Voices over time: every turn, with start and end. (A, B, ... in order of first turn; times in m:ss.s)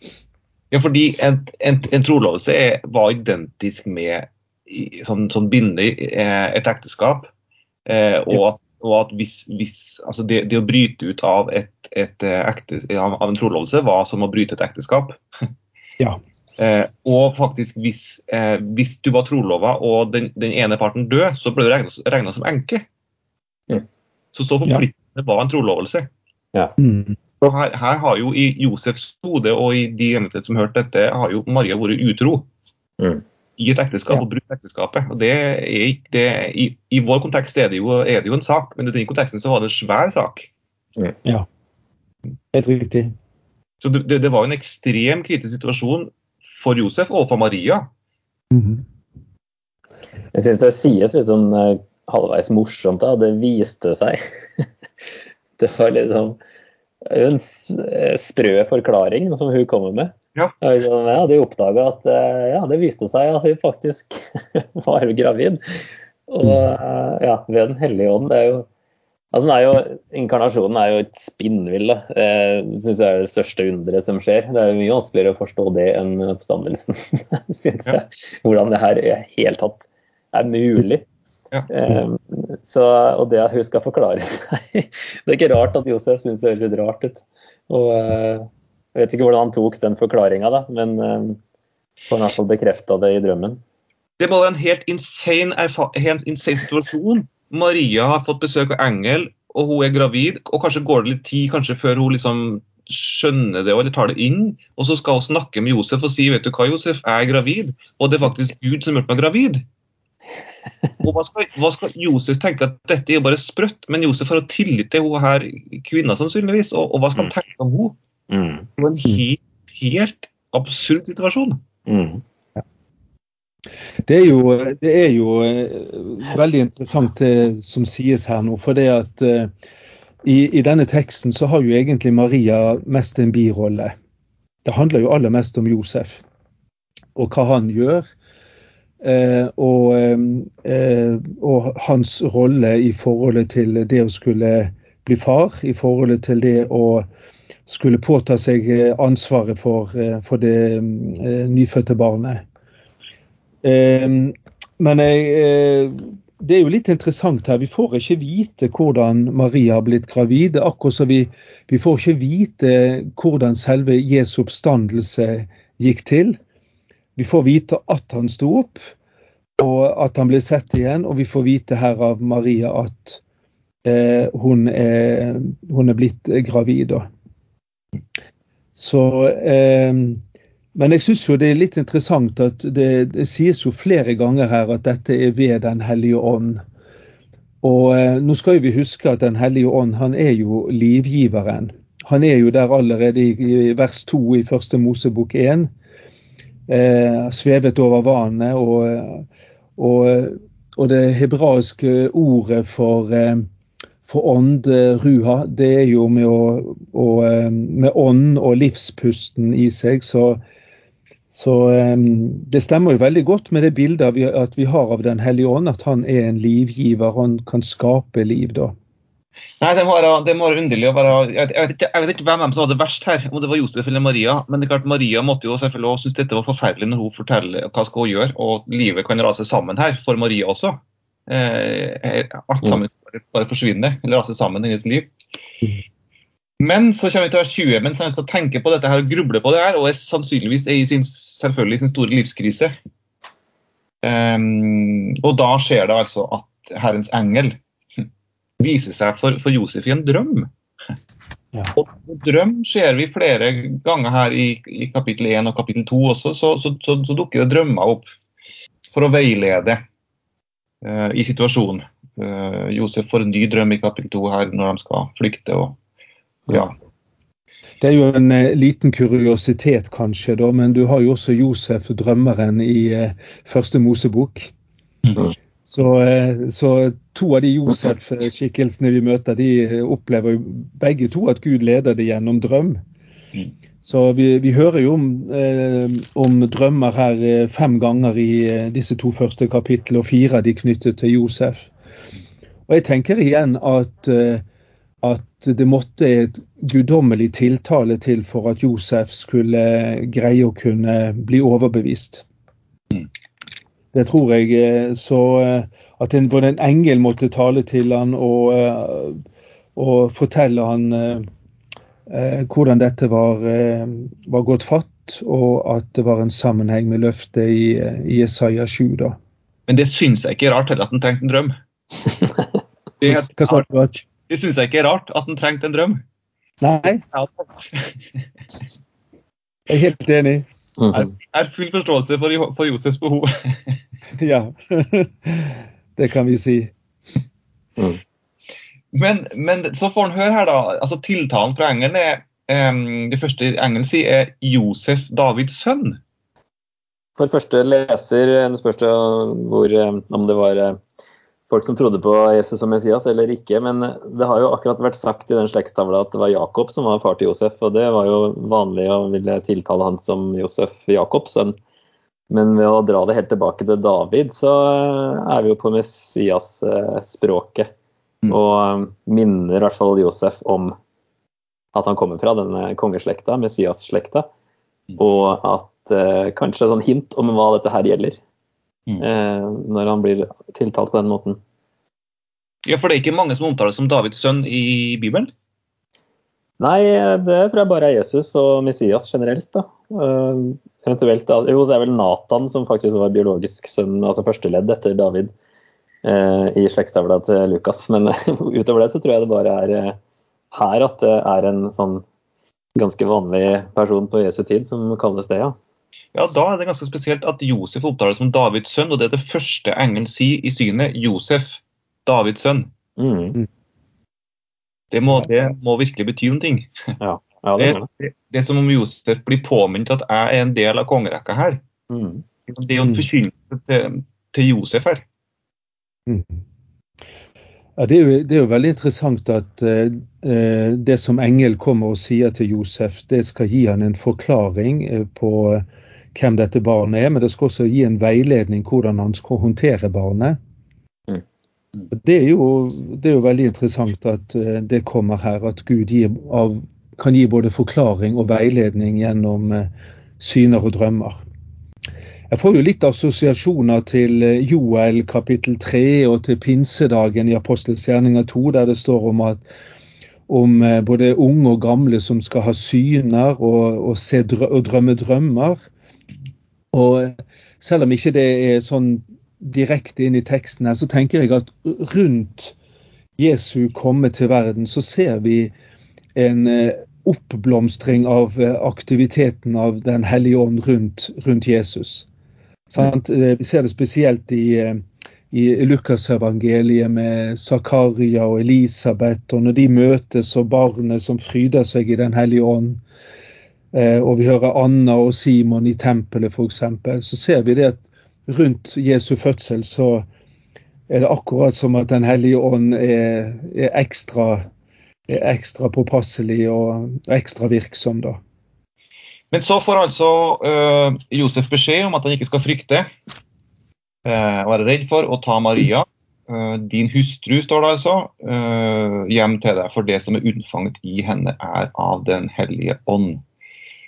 0:00.7-0:07.3 A
0:07.8-0:15.2 A
0:16.6-0:22.8 A
0:24.3-0:26.1 A
0:26.8-0:27.2 B
0:27.4-0:32.5 A
0:33.0-0:33.2 C
0:33.6-0:40.5 A
0:42.5-0:43.1 B
0:43.8-0:47.9 A
0:48.5-0:48.8 B
0:50.3-0:54.6 C
0:55.6-0:56.4 C
0:57.0-1:08.7 C
1:09.3-1:21.0 C
1:21.7-1:31.4 C
1:32.1-1:33.6 C
1:34.2-1:49.6 A
1:51.0-1:57.9 A
1:58.3-1:58.7 C
1:58.8-2:01.6 A
2:01.9-2:02.2 C
2:04.0-2:09.5 B
2:10.2-2:13.9 B
2:14.6-2:16.2 B
2:17.1-2:18.0 B
2:19.0-2:27.0 B
2:27.6-2:32.4 B
2:33.6-2:46.4 B
2:47.2-2:48.9 B
2:49.6-2:53.2 B
2:53.8-2:57.1 B
2:58.8-3:00.2 B
3:00.7-3:06.6 B
3:07.6-3:15.7 B
3:16.7-3:19.2 B
3:19.8-3:23.4 B
3:24.0-3:30.4 B
3:31.3-3:38.7 B
3:39.6-3:55.1 A
3:56.6-4:02.7 A
4:04.0-4:07.6 A
4:08.6-4:10.5 A
4:11.7-4:18.1 A
4:18.9-4:19.8 A
4:20.8-4:25.8 A
4:27.8-4:34.5 B
4:35.6-4:42.8 B
4:43.8-4:51.7 B
4:52.7-4:54.4 B
4:55.0-5:02.2 B
5:03.9-5:09.2 B
5:09.8-5:11.3 B
5:12.1-5:19.2 B
5:19.7-5:21.5 A
5:23.0-5:26.0 A
5:23.3-5:24.0 B
5:26.6-5:27.0 B
5:27.1-5:28.2 A
5:29.7-5:30.4 B
5:30.8-5:31.1 C
5:30.9-5:33.8 A
5:34.2-5:36.7 B
5:38.9-5:46.0 A
5:47.2-5:50.8 C
5:51.5-6:01.6 C
6:02.3-6:07.7 C
6:08.3-6:10.7 C
6:11.7-6:14.3 C
6:15.0-6:18.2 C
6:19.0-6:21.4 C
6:22.6-6:25.3 A
6:26.6-6:35.3 C
6:36.0-6:40.0 C
6:40.5-6:42.0 C
6:42.7-6:45.6 C
6:46.1-6:52.7 A
6:53.0-6:53.4 C
6:54.9-6:56.7 A
6:57.0-6:57.9 C
6:57.6-7:01.6 A
7:01.9-7:02.2 C
7:02.5-7:05.0 A
7:06.1-7:06.4 B
7:07.8-7:20.4 B
7:21.9-7:31.2 B
7:32.3-7:39.4 B
7:40.3-7:45.7 B
7:46.7-7:52.6 B
7:53.2-7:55.5 B
7:56.1-8:02.1 B
8:02.7-8:12.8 B
8:13.7-8:20.0 B
8:20.9-8:24.5 B
8:25.1-8:28.2 B
8:29.3-8:32.9 A
8:34.0-8:43.2 A